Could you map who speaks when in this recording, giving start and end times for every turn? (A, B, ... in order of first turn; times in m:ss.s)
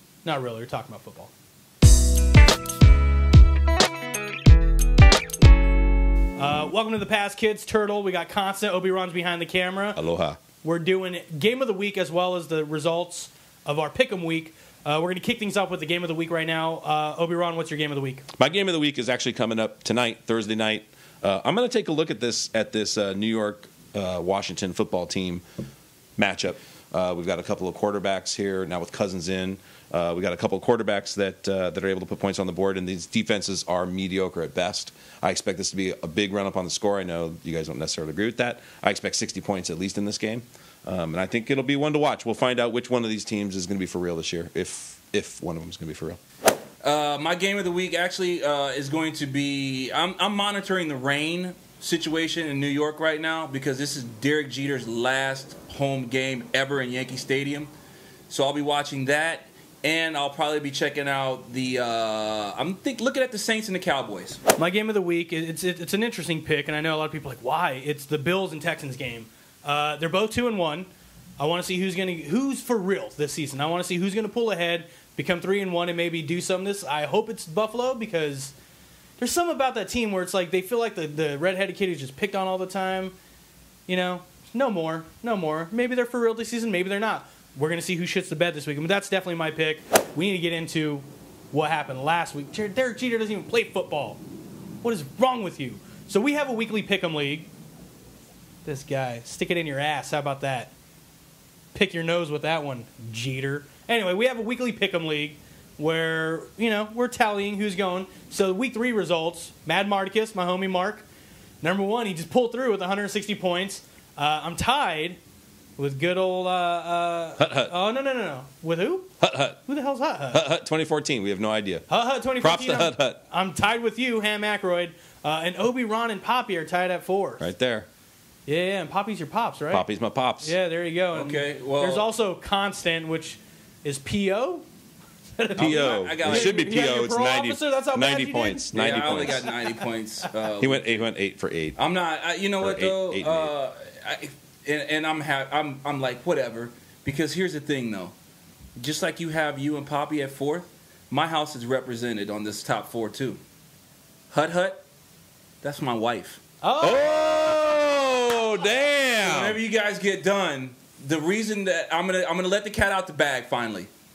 0:00.2-0:01.3 A
0:06.4-0:10.0 A
0:10.0-0:10.4 B
0:10.6-0:18.2 A
0:18.4-0:25.4 B
0:26.2-0:46.2 B
0:46.8-0:57.7 C
0:58.3-1:04.4 C
1:04.6-1:18.5 A
1:19.2-1:23.1 A
1:23.9-1:34.2 A
1:34.8-1:37.5 A
1:38.6-1:40.7 A
1:41.7-1:51.0 A
1:51.6-1:55.2 A
1:55.8-1:59.1 A
1:57.4-1:57.7 B
1:59.2-1:59.6 B
1:59.6-2:00.4 A
2:00.3-2:01.9 B
2:01.9-2:07.4 A
2:02.4-2:03.2 B
2:07.4-2:07.9 B
2:08.4-2:09.9 A
2:09.7-2:10.5 B
2:10.4-2:14.6 A
2:11.1-2:12.1 C
2:15.4-2:19.8 A
2:15.6-2:19.5 B
2:15.6-2:16.8 C
2:18.7-2:21.0 C
2:20.6-2:21.8 B
2:21.8-2:28.1 C
2:22.6-2:23.5 B
2:28.8-2:33.4 C
2:34.3-2:34.8 C
2:35.6-2:36.4 C
2:36.6-2:37.1 A
2:36.8-2:39.6 B
2:39.2-2:43.9 C